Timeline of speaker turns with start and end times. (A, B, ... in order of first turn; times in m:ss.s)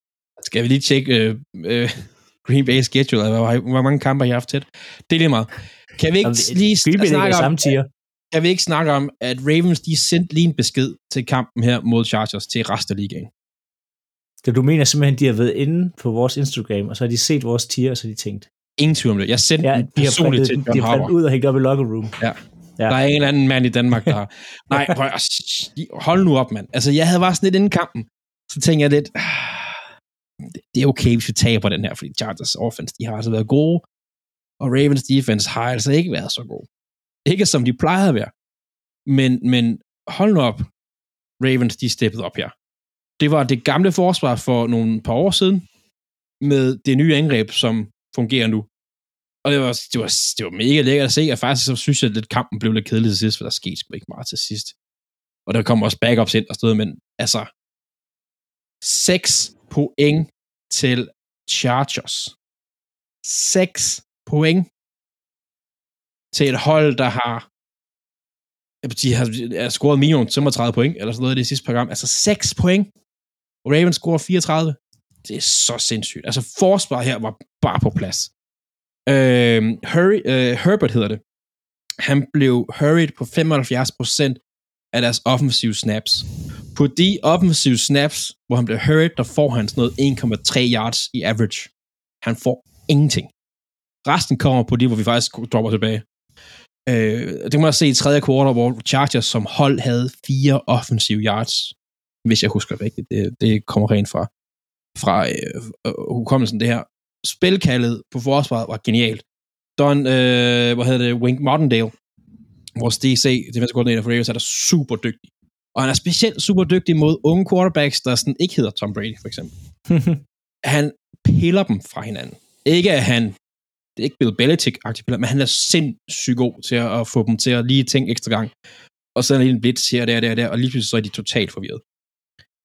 0:00.4-0:07.7 A
0:06.2-0:07.9 B
0:08.3-0:13.3 A
0:14.4-0:18.5 B
0:18.8-0:21.1 A
0:19.6-0:22.2 B
0:22.2-0:29.8 A
0:30.5-0:33.8 A
0:34.6-0:36.7 A
0:37.2-0:38.3 A
0:39.0-0:40.7 A
0:41.4-0:42.5 A
0:43.2-0:45.6 A
0:46.4-0:48.7 A
0:49.4-0:54.8 A
0:55.4-0:57.5 A
0:58.8-1:02.3 A
1:03.2-1:04.7 A
1:06.3-1:07.4 A
1:08.8-1:12.9 A
1:13.6-1:18.3 A
1:19.1-1:21.2 A
1:22.0-1:24.4 A
1:24.9-1:31.7 A
1:32.2-1:33.3 A
1:34.0-1:36.0 A
1:36.9-1:44.3 A
1:45.0-1:49.2 A
1:49.8-1:51.9 A
1:52.8-1:59.5 A
1:59.9-2:00.2 B
2:00.6-2:03.4 A
2:04.0-2:08.5 A
2:09.2-2:11.8 A